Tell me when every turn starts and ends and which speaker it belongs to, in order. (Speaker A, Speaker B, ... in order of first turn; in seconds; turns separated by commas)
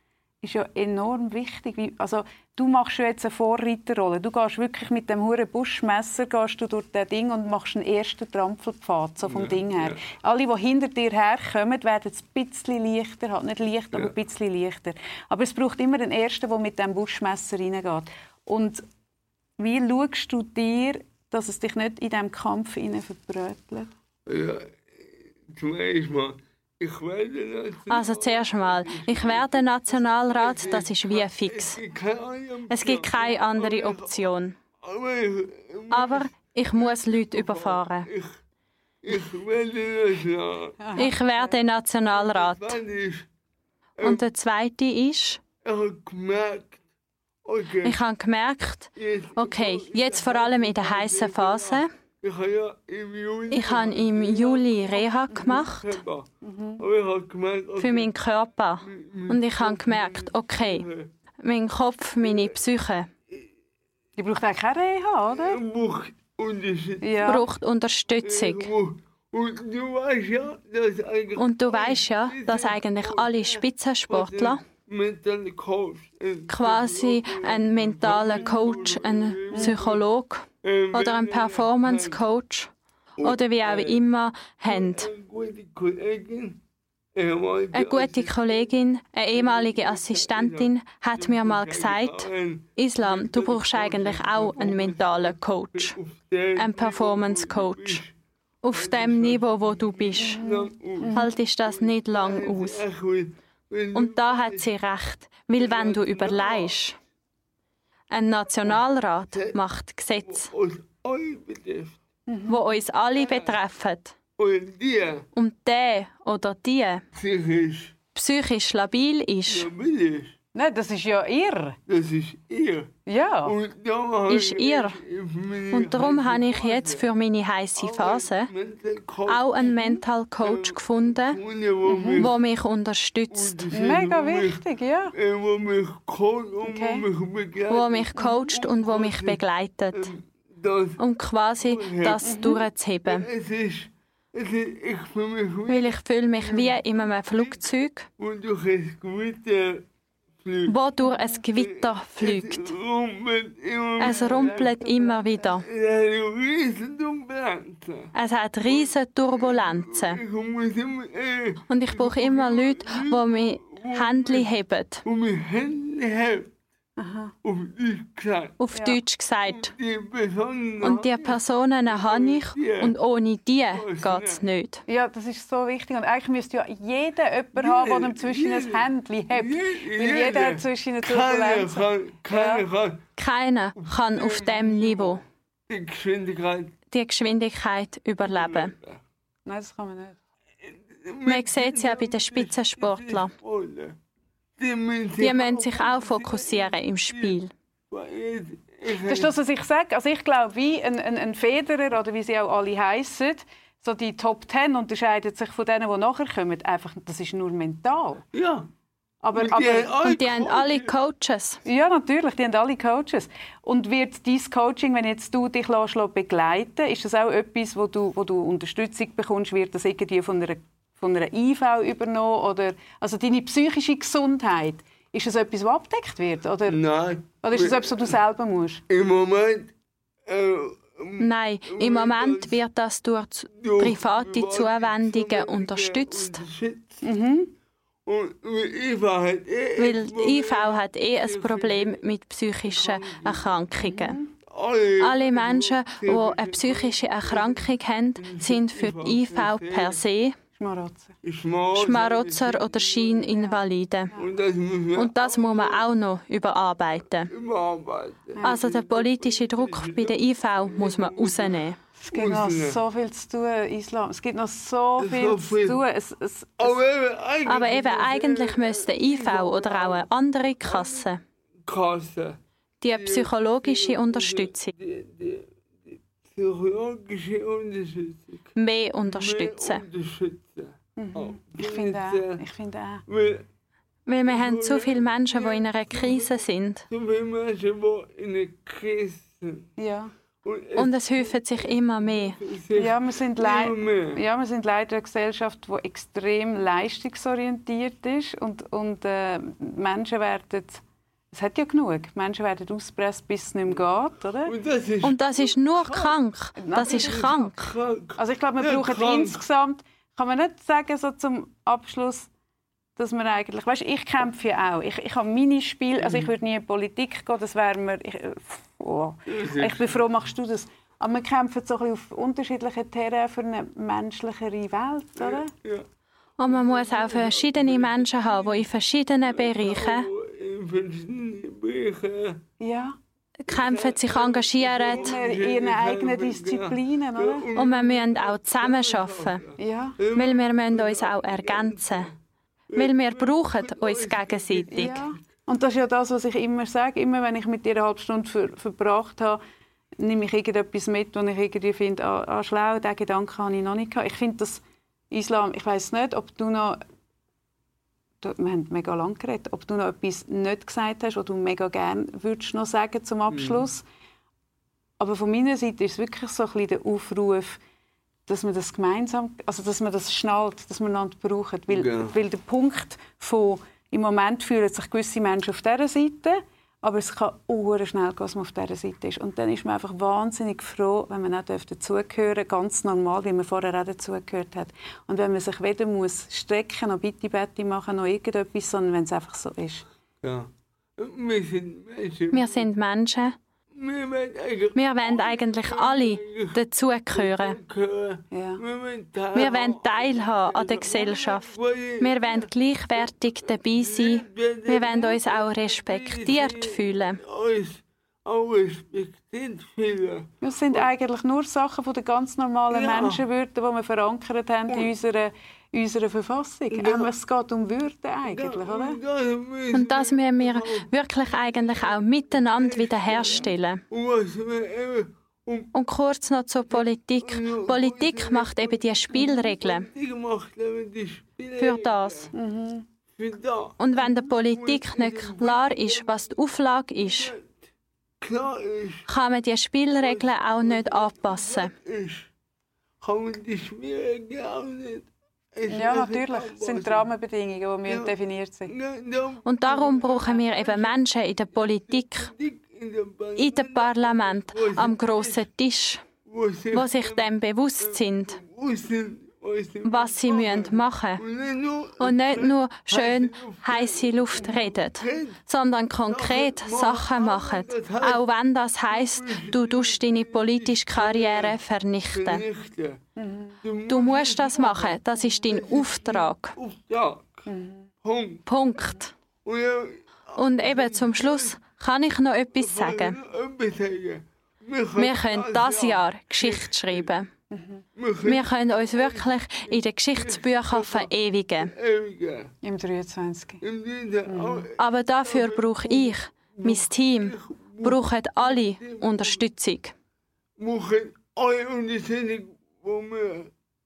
Speaker A: 0.4-18.8, Speaker B: 9.2-10.0, Speaker A: 19.6-23.9, Speaker B: 24.2-34.2, Speaker C: 27.9-31.8, Speaker C: 32.7-34.6, Speaker B: 34.8-38.4, Speaker C: 35.9-38.1, Speaker B: 39.0-41.1, Speaker A: 40.8-41.5, Speaker C: 41.0-42.8, Speaker B: 42.1-43.3, Speaker B: 44.0-44.2, Speaker C: 44.0-45.4, Speaker B: 45.6-46.8, Speaker B: 47.4-48.0, Speaker C: 47.8-51.9, Speaker B: 49.0-56.3, Speaker C: 53.5-56.0, Speaker A: 55.3-55.6, Speaker A: 56.4-56.8, Speaker B: 56.8-58.1, Speaker C: 57.8-60.9, Speaker B: 58.8-61.1, Speaker C: 61.4-63.1, Speaker B: 62.2-62.5, Speaker A: 64.2-65.6, Speaker B: 65.3-67.4, Speaker A: 67.0-67.5, Speaker C: 67.2-68.7, Speaker B: 68.2-80.0, Speaker C: 71.4-74.6, Speaker C: 76.5-85.1, Speaker B: 80.6-82.2, Speaker B: 83.2-84.0, Speaker B: 84.6-86.6, Speaker B: 87.1-88.7, Speaker C: 87.7-96.0, Speaker B: 89.3-98.1, Speaker C: 96.6-98.0, Speaker C: 98.6-100.4, Speaker B: 98.7-104.7, Speaker A: 100.2-101.2, Speaker C: 101.1-102.8, Speaker C: 103.9-107.0, Speaker B: 105.5-106.8, Speaker C: 108.1-110.5, Speaker B: 108.6-109.6, Speaker B: 110.2-112.0, Speaker A: 112.3-112.6, Speaker C: 112.5-114.1, Speaker B: 113.1-113.6, Speaker B: 114.4-115.2, Speaker C: 115.3-117.0, Speaker B: 117.1-118.0, Speaker C: 118.1-119.7, Speaker B: 119.5-120.3, Speaker A: 120.5-121.8, Speaker B: 121.9-122.9, Speaker A: 123.0-123.5, Speaker B: 123.4-127.1, Speaker C: 124.3-125.0, Speaker C: 125.7-128.5, Speaker B: 127.8-132.4, Speaker C: 129.3-131.4, Speaker A: 131.8-132.3, Speaker C: 132.2-133.6, Speaker B: 133.3-134.6, Speaker A: 133.7-135.1, Speaker B: 135.1-139.4, Speaker A: 136.6-137.1, Speaker C: 137.7-140.1, Speaker B: 139.9-141.0, Speaker C: 141.0-143.2, Speaker B: 141.6-147.6, Speaker A: 142.2-142.6, Speaker C: 145.7-148.1, Speaker B: 148.2-149.9, Speaker B: 150.4-150.7, Speaker C: 150.7-152.7, Speaker A: 151.0-151.4, Speaker B: 151.5-154.7, Speaker C: 154.0-155.7, Speaker A: 154.0-155.6, Speaker B: 155.6-164.5, Speaker C: 158.1-160.2, Speaker C: 161.7-165.0, Speaker B: 165.0-166.5, Speaker A: 167.0-167.3, Speaker B: 167.4-168.6, Speaker C: 168.6-169.7, Speaker A: 168.7-169.0, Speaker B: 169.4-172.9, Speaker C: 170.8-174.8, Speaker B: 173.7-174.4, Speaker A: 174.9-182.7, Speaker B: 177.5-183.0, Speaker C: 183.2-185.2, Speaker B: 183.8-186.7, Speaker C: 186.9-188.7, Speaker B: 188.2-189.0, Speaker A: 189.4-190.2, Speaker B: 190.6-194.0, Speaker C: 191.2-193.3, Speaker B: 194.6-197.4, Speaker C: 195.2-197.5, Speaker B: 197.9-199.3, Speaker A: 199.1-208.2, Speaker B: 208.3-208.7, Speaker A: 209.2-210.0, Speaker B: 209.3-210.9, Speaker C: 210.0-211.6, Speaker A: 211.6-226.8, Speaker B: 226.7-228.2, Speaker A: 227.4-228.8, Speaker B: 228.9-229.7, Speaker B: 230.2-232.6, Speaker C: 231.2-236.4, Speaker B: 233.6-237.0, Speaker A: 237.0-237.5, Speaker B: 238.0-242.0, Speaker C: 239.8-244.2, Speaker B: 242.6-243.5, Speaker A: 243.8-244.3, Speaker B: 244.5-250.0, Speaker C: 245.0-250.3, Speaker A: 250.5-251.2, Speaker B: 251.2-253.4, Speaker C: 251.7-254.1, Speaker A: 253.3-254.3, Speaker B: 254.1-255.9, Speaker C: 254.9-257.3, Speaker B: 257.3-262.8, Speaker A: 258.3-258.6, Speaker C: 258.4-261.8, Speaker A: 262.1-266.8, Speaker B: 265.0-265.8, Speaker B: 266.6-270.1, Speaker C: 267.4-271.2, Speaker B: 270.6-271.1, Speaker B: 271.6-272.4, Speaker C: 272.8-274.7, Speaker B: 272.9-278.5, Speaker C: 278.6-279.8, Speaker B: 279.0-282.4, Speaker A: 281.0-283.0, Speaker B: 283.1-283.4, Speaker C: 284.1-286.9, Speaker B: 284.2-289.7, Speaker A: 289.8-290.1, Speaker B: 290.4-294.2, Speaker C: 290.8-292.4, Speaker A: 292.7-304.5, Speaker B: 304.4-306.2, Speaker C: 305.0-307.7, Speaker A: 306.6-307.4, Speaker B: 306.7-309.4, Speaker A: 308.1-312.3, Speaker A: 313.0-325.5, Speaker B: 316.0-316.3, Speaker B: 319.3-320.0, Speaker B: 325.2-325.9, Speaker C: 326.4-330.1, Speaker B: 326.4-328.7, Speaker B: 329.2-332.4, Speaker A: 332.6-332.9, Speaker C: 333.4-335.1, Speaker B: 333.5-342.1, Speaker A: 334.8-337.5, Speaker C: 337.5-339.4, Speaker A: 339.6-340.0, Speaker C: 340.1-342.1, Speaker B: 342.7-345.2, Speaker C: 342.7-345.1, Speaker A: 344.7-349.4, Speaker A: 350.0-356.8, Speaker A: 358.2-363.8, Speaker B: 363.3-363.7, Speaker A: 365.0-367.6, Speaker A: 368.3-389.8, Speaker B: 371.7-372.1, Speaker B: 390.2-392.7, Speaker C: 392.3-393.4, Speaker B: 393.7-396.6, Speaker C: 394.7-397.6, Speaker B: 397.1-410.9, Speaker A: 398.3-398.6, Speaker C: 399.3-407.2, Speaker A: 410.4-419.0, Speaker B: 412.7-413.2, Speaker B: 414.7-414.9, Speaker B: 416.7-417.1, Speaker B: 418.2-425.7, Speaker C: 419.7-423.8, Speaker C: 425.7-429.9, Speaker B: 426.7-432.3, Speaker C: 431.6-432.3, Speaker A: 432.3-432.9, Speaker B: 433.1-436.4, Speaker C: 433.8-437.3, Speaker B: 437.0-437.7, Speaker B: 438.2-439.1, Speaker C: 439.1-441.7, Speaker B: 440.0-442.3, Speaker B: 443.0-447.1, Speaker A: 445.7-448.7, Speaker B: 447.9-448.1, Speaker B: 448.6-451.0, Speaker C: 449.4-452.3, Speaker B: 451.5-455.4, Speaker C: 453.4-456.0, Speaker B: 456.2-465.4, Speaker C: 456.7-458.4, Speaker C: 459.8-461.2, Speaker C: 462.0-472.4, Speaker A: 464.3-464.7, Speaker B: 466.1-468.2, Speaker B: 468.8-471.6, Speaker B: 472.1-473.0, Speaker A: 473.1-473.6, Speaker B: 473.6-477.5, Speaker C: 473.9-476.5, Speaker A: 477.4-477.9, Speaker B: 478.0-478.4, Speaker C: 478.5-479.1, Speaker B: 479.4-481.6, Speaker C: 480.4-483.1, Speaker B: 482.6-487.1, Speaker C: 485.0-487.3, Speaker A: 487.5-487.8, Speaker B: 487.9-492.5, Speaker C: 488.2-491.7, Speaker A: 492.6-493.6, Speaker B: 493.6-499.4, Speaker A: 494.2-494.7, Speaker C: 494.8-499.9, Speaker B: 500.6-503.5